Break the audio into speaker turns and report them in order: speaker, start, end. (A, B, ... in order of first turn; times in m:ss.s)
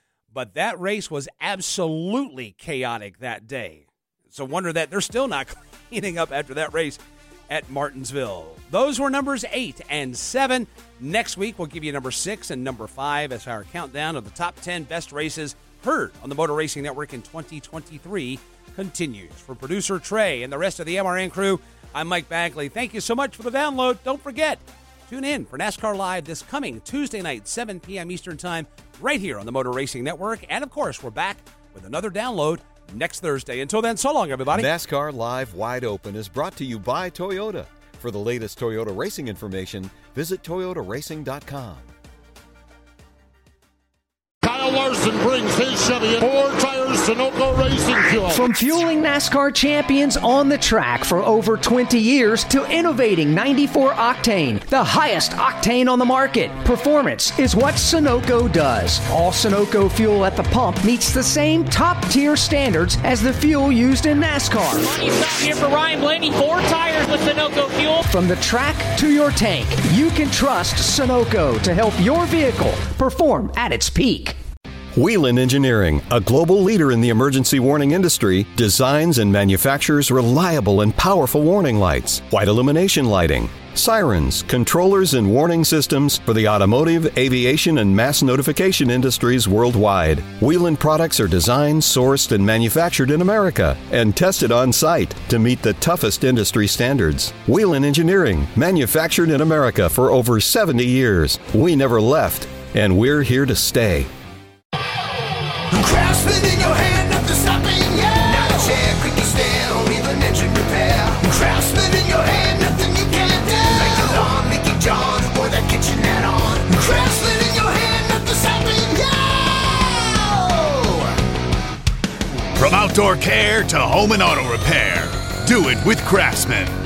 0:00.3-0:34.7 A
0:34.5-0:41.9 B
0:44.4-0:48.4 C
0:48.3-1:04.9 D
1:04.8-1:08.0 E
1:08.0-1:14.4 D
1:14.9-1:44.1 B
1:45.7-2:01.1 F
2:02.6-2:06.3 G